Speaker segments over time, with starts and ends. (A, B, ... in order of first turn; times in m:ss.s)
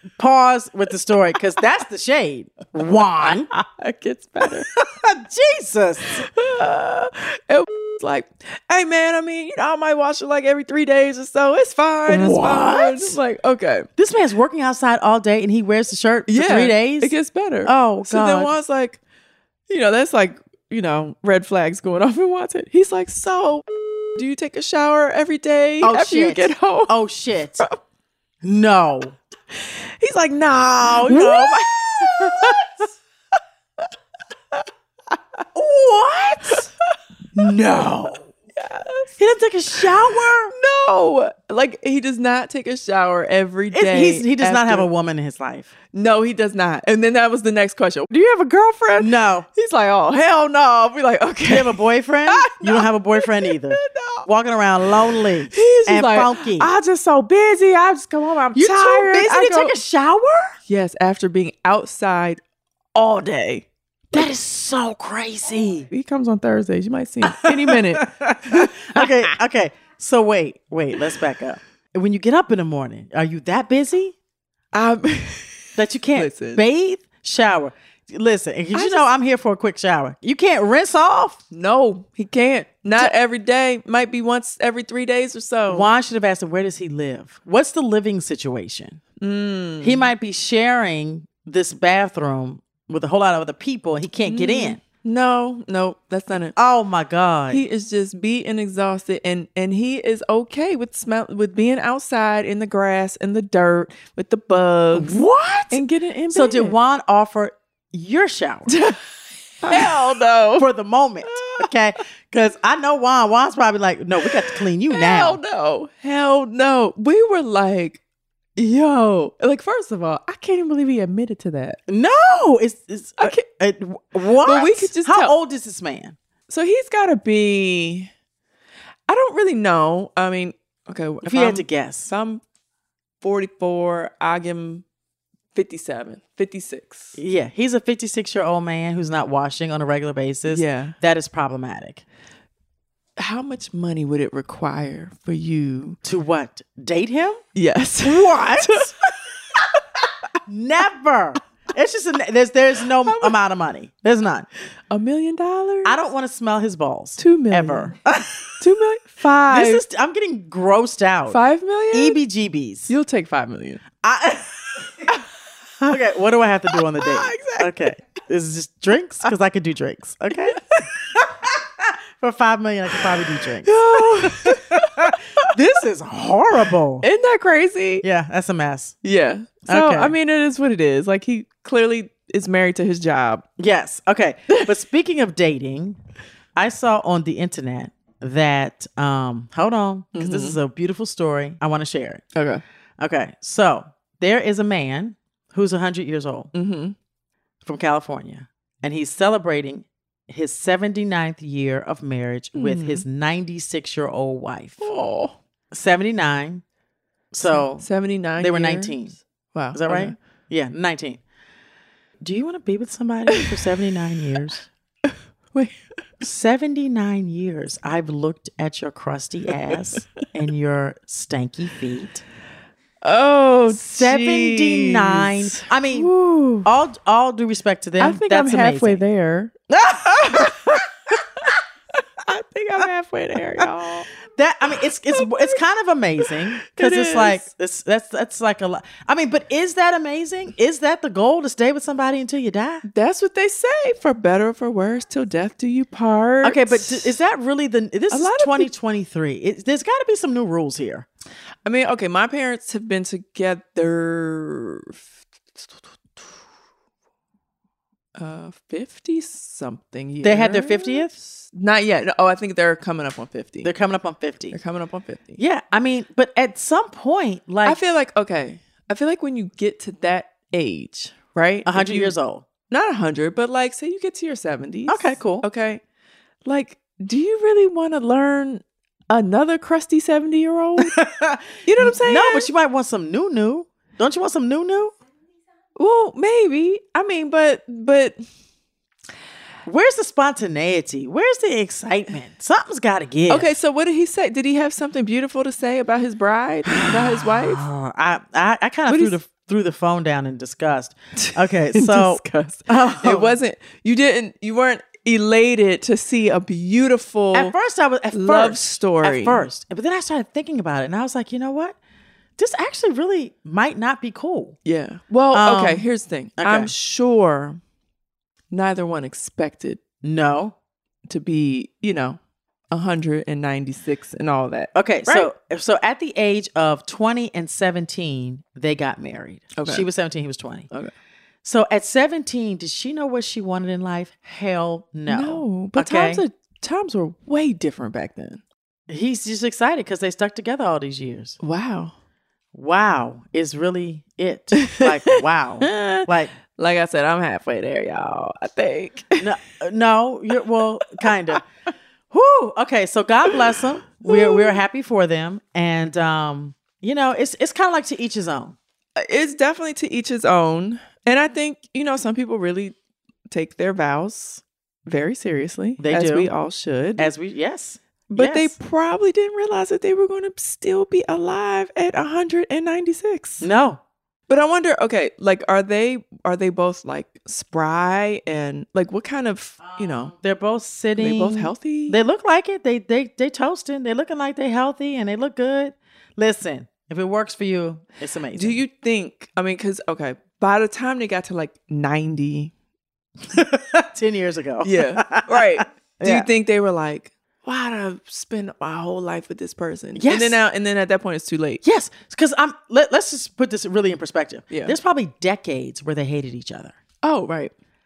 0:00.2-0:03.5 A
0:03.5-0:04.7 B
0:04.8-0:06.2 A
0:06.1-0:13.9 B
0:12.1-0:13.2 A
0:14.0-0:17.1 A
0:16.3-0:19.0 B
0:17.6-0:18.5 A
0:19.7-0:27.0 B
0:25.8-0:27.7 A
0:28.4-0:29.2 A
0:29.5-0:32.8 B
0:30.8-0:32.7 A
0:35.5-0:36.7 A
0:36.5-0:37.4 B
0:37.4-0:38.3 A
0:38.6-0:39.1 B
0:39.2-0:40.6 A
0:40.5-0:44.9 B
0:43.7-0:45.7 A
0:45.9-0:48.1 B
0:48.1-0:49.5 A
0:48.8-0:54.3 B
0:51.5-0:56.7 A
0:55.5-0:59.8 B
0:58.6-1:00.6 A
1:00.7-1:02.4 B
1:03.0-1:04.3 B
1:04.1-1:05.9 A
1:05.9-1:09.1 B
1:07.2-1:14.2 A
1:14.7-1:16.6 B
1:15.8-1:21.4 A
1:18.7-1:19.1 B
1:21.5-1:25.9 B
1:25.7-1:29.0 A
1:29.2-1:30.1 B
1:29.8-1:34.8 A
1:34.2-1:36.6 B
1:36.6-1:37.6 A
1:37.5-1:46.8 B
1:44.9-1:48.8 A
1:48.7-1:49.0 B
1:49.6-1:50.7 B
1:49.7-1:55.4 A
1:51.2-1:51.7 B
1:54.5-1:58.0 B
1:58.6-2:01.8 B
2:01.9-2:06.2 A
2:03.2-2:03.5 B
2:04.4-2:05.4 B
2:06.5-2:08.1 B
2:09.1-2:12.4 B
2:11.2-2:12.1 A
2:13.2-2:14.8 B
2:15.6-2:17.2 B
2:17.2-2:22.0 A
2:20.5-2:21.0 B
2:23.2-2:26.0 B
2:26.0-2:27.4 A
2:27.6-2:28.9 B
2:28.0-2:29.1 A
2:30.5-2:34.5 A
2:33.0-2:33.4 B
2:34.9-2:36.0 B
2:35.8-2:38.6 A
2:37.2-2:37.9 B
2:38.6-2:39.8 B
2:39.5-2:41.4 A
2:41.3-2:42.2 B
2:41.9-2:42.9 A
2:42.9-2:43.8 B
2:44.0-2:45.1 A
2:45.8-2:57.1 A
2:46.9-2:47.9 B
2:53.6-2:55.5 B
2:57.0-2:58.1 B
2:58.0-2:59.0 A
2:59.0-3:03.5 B
2:59.7-3:00.1 A
3:03.6-3:06.0 A
3:06.6-3:12.2 A
3:10.2-3:10.6 B
3:12.4-3:12.6 B
3:13.0-3:16.5 A
3:16.5-3:17.0 B
3:17.6-3:24.9 A
3:22.5-3:23.0 B
3:24.8-3:25.4 B
3:25.7-3:26.6 A
3:27.3-3:27.9 A
3:27.4-3:30.2 B
3:28.4-3:29.2 A
3:29.7-3:31.2 A
3:32.2-3:34.7 A
3:33.3-3:33.6 B
3:35.1-3:35.8 B
3:36.2-3:42.2 A
3:43.0-3:46.7 B
3:43.7-3:46.1 A
3:46.6-3:49.0 A
3:48.0-3:50.8 B
3:49.9-3:50.7 A
3:52.2-3:54.1 B
3:54.4-4:02.8 A
3:55.1-3:55.6 B
3:56.3-3:57.5 B
4:02.9-4:07.2 B
4:06.4-4:11.1 A
4:08.1-4:08.7 B
4:11.6-4:16.4 B
4:18.2-4:23.7 B
4:20.2-4:21.1 A
4:23.6-4:24.6 A
4:24.5-4:25.4 B
4:25.4-4:27.8 A
4:27.7-4:32.1 B
4:31.7-4:32.5 A
4:32.7-4:35.8 B
4:34.9-4:35.5 A
4:36.4-4:41.0 B
4:40.8-4:44.9 A
4:41.6-4:42.5 B
4:45.8-4:48.2 B
4:49.7-4:53.5 A
4:53.3-4:57.6 B
4:56.7-5:03.4 A
4:58.9-4:59.2 B
5:01.2-5:07.6 B
5:07.3-5:11.8 A
5:08.1-5:09.5 B
5:12.4-5:14.6 A
5:14.6-5:17.6 B
5:15.3-5:15.9 A
5:16.4-5:16.7 A
5:18.5-5:19.8 B
5:20.0-5:20.6 A
5:21.1-5:22.2 B
5:22.7-5:25.3 B
5:24.7-5:30.7 A
5:29.6-5:29.9 B
5:31.4-5:36.2 A
5:35.1-5:38.4 B
5:38.9-5:41.4 A
5:41.4-5:41.9 B
5:42.5-5:46.3 A
5:44.6-5:49.3 B
5:49.2-5:51.4 A
5:52.1-5:58.6 A
5:54.1-5:54.6 B
5:59.0-6:02.8 B
6:03.3-6:07.1 B
6:05.8-6:06.3 A
6:07.0-6:08.5 A
6:08.1-6:13.5 B
6:13.4-6:13.8 A
6:14.3-6:20.1 B
6:19.8-6:28.6 A
6:21.0-6:22.0 B
6:28.3-6:32.5 B
6:33.3-6:36.3 A
6:34.6-6:41.6 B
6:40.0-6:40.4 A
6:41.6-6:46.8 A
6:44.5-6:44.8 B
6:47.0-6:47.5 B